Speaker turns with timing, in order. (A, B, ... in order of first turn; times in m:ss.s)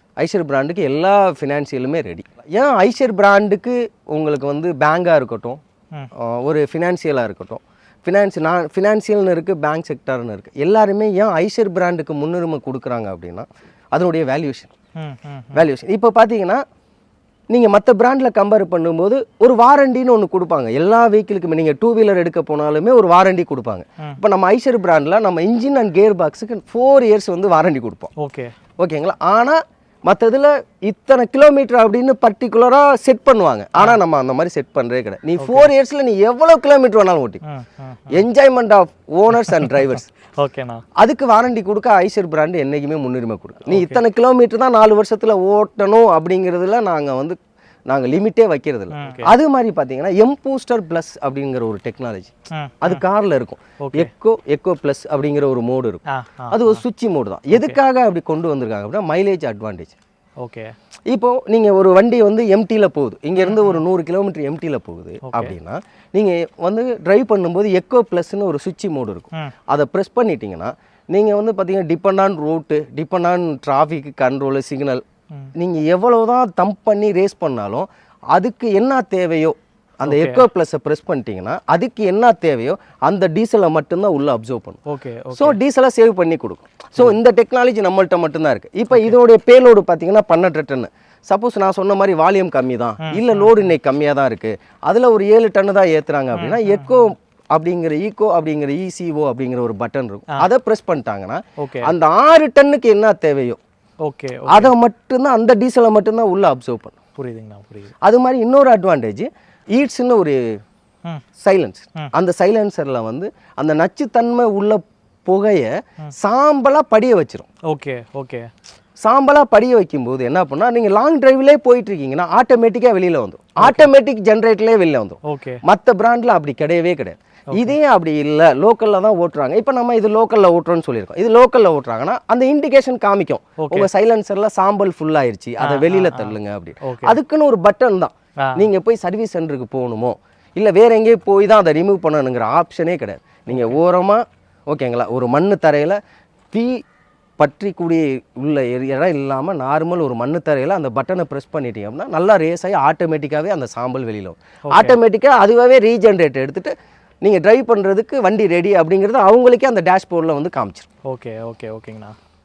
0:00.2-0:05.6 A
0:06.2-0:14.7 A
0:15.0-0:15.6 B
0:15.5-0:16.6 A
0:17.5-0:28.1 A
0:28.2-0:28.5 B
0:28.8-0:37.4 A
0:35.4-0:35.7 B
0:37.4-0:38.2 B
0:38.1-0:40.1 A
0:40.4-0:40.8 B
0:41.0-0:47.4 A
0:43.7-0:44.0 B
0:47.9-0:52.3 A
0:48.9-0:49.3 B
0:52.5-0:53.0 B
0:52.8-0:59.9 A
0:53.8-0:54.1 B
0:56.1-0:56.8 B
1:00.4-1:00.7 B
1:01.1-1:15.0 A
1:03.4-1:03.8 B
1:05.2-1:05.5 B
1:15.6-1:24.8 A
1:20.0-1:20.4 B
1:24.9-1:25.6 B
1:25.4-1:43.6 A
1:28.9-1:29.2 B
1:33.0-1:33.7 B
1:36.4-1:37.1 B
1:41.6-1:41.9 B
1:44.1-1:44.7 B
1:44.5-1:47.0 A
1:47.2-1:47.9 B
1:48.0-1:50.4 A
1:51.4-1:57.5 A
1:57.7-1:58.5 B
1:59.0-2:26.0 A
2:03.6-2:03.9 B
2:05.2-2:05.6 B
2:13.6-2:13.9 B
2:15.6-2:17.2 B
2:23.5-2:23.8 B
2:27.4-2:40.9 A
2:34.7-2:35.0 B
2:41.1-2:42.2 B